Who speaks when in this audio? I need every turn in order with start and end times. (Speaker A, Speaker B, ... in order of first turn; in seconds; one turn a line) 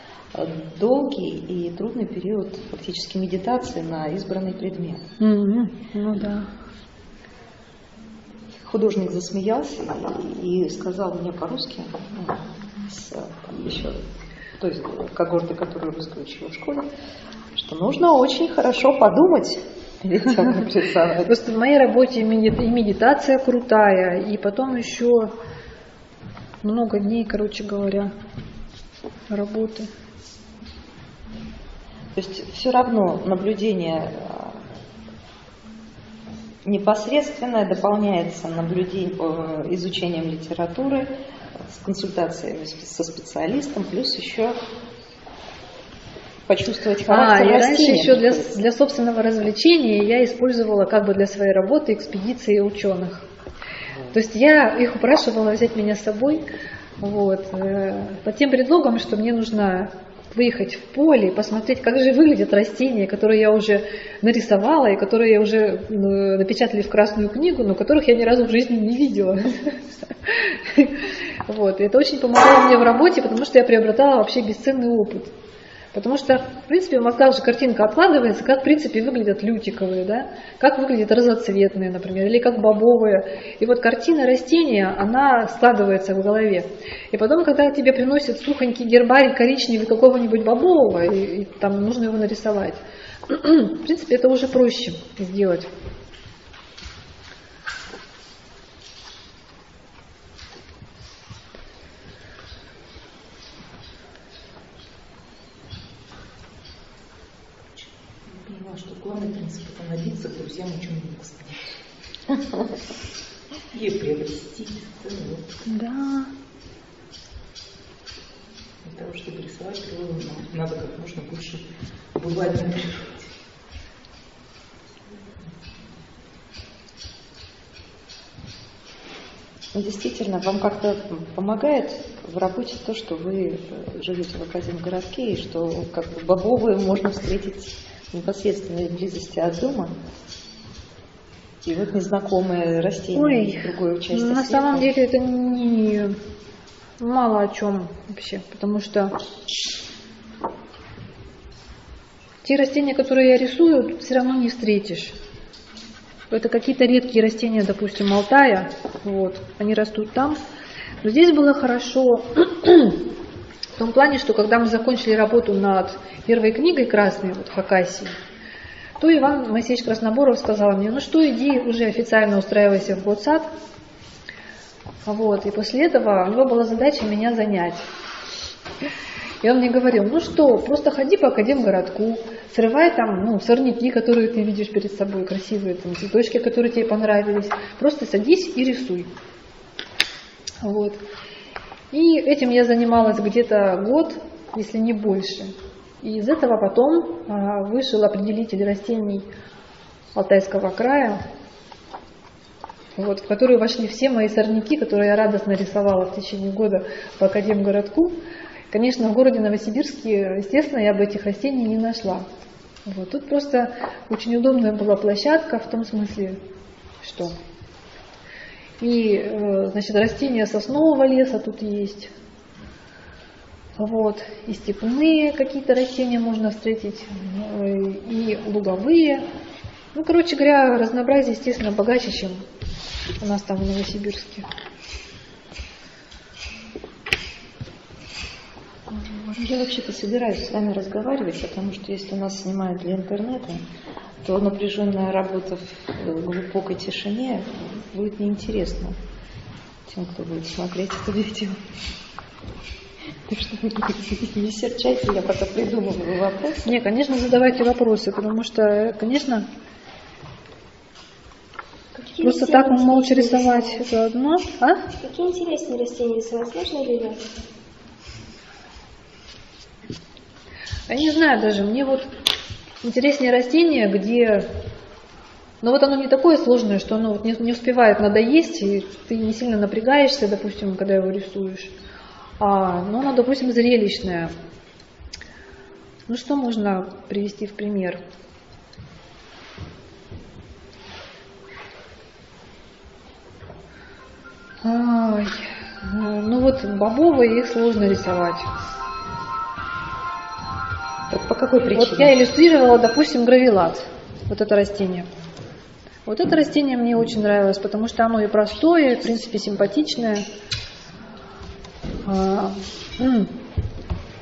Speaker A: 0.4-5.0
Speaker B: 5.2-6.5
Speaker A: 8.7-14.0
Speaker A: 14.6-16.8
Speaker A: 17.6-21.3
Speaker B: 21.2-25.3
Speaker B: 26.6-28.1
Speaker B: 29.3-29.9
Speaker A: 32.2-34.2
Speaker A: 36.7-41.1
Speaker A: 41.7-44.5
Speaker A: 46.5-48.4
Speaker B: 47.0-53.3
Speaker B: 54.1-56.5
Speaker B: 57.0-75.3
Speaker B: 75.9-95.7
Speaker C: 107.8-111.8
Speaker C: 113.7-115.5
Speaker B: 115.7-116.3
Speaker C: 118.8-121.6
Speaker C: 122.2-123.2
Speaker A: 129.8-139.9
Speaker A: 141.6-144.9
Speaker B: 143.1-146.2
Speaker B: 147.0-149.2
Speaker B: 152.4-155.2
Speaker B: 156.3-160.4
Speaker B: 161.0-163.0
Speaker B: 163.8-168.2
Speaker B: 169.0-173.5
Speaker B: 175.1-177.8
Speaker B: 179.4-189.1
Speaker B: 190.6-191.0
Speaker B: 191.9-199.3
Speaker B: 200.2-201.2
Speaker B: 203.0-208.2
Speaker B: 208.7-212.3
Speaker B: 212.9-216.4
Speaker B: 217.0-217.4
Speaker B: 218.8-222.1
Speaker B: 223.8-229.2
Speaker B: 229.9-232.4
Speaker B: 233.2-234.5
Speaker A: 239.4-243.6
Speaker A: 244.2-248.9
Speaker A: 249.9-251.6
Speaker A: 253.3-256.6
Speaker B: 256.6-259.5
Speaker D: 261.9-263.9
Speaker B: 262.2-264.8
Speaker D: 264.9-267.5
Speaker B: 270.9-272.1
Speaker B: 272.8-274.5
Speaker B: 275.6-281.7
Speaker B: 282.4-284.3
Speaker B: 286.1-288.0
Speaker B: 294.6-298.5
Speaker A: 301.1-302.1
Speaker B: 301.7-305.1
Speaker B: 306.1-310.2
Speaker B: 312.1-313.3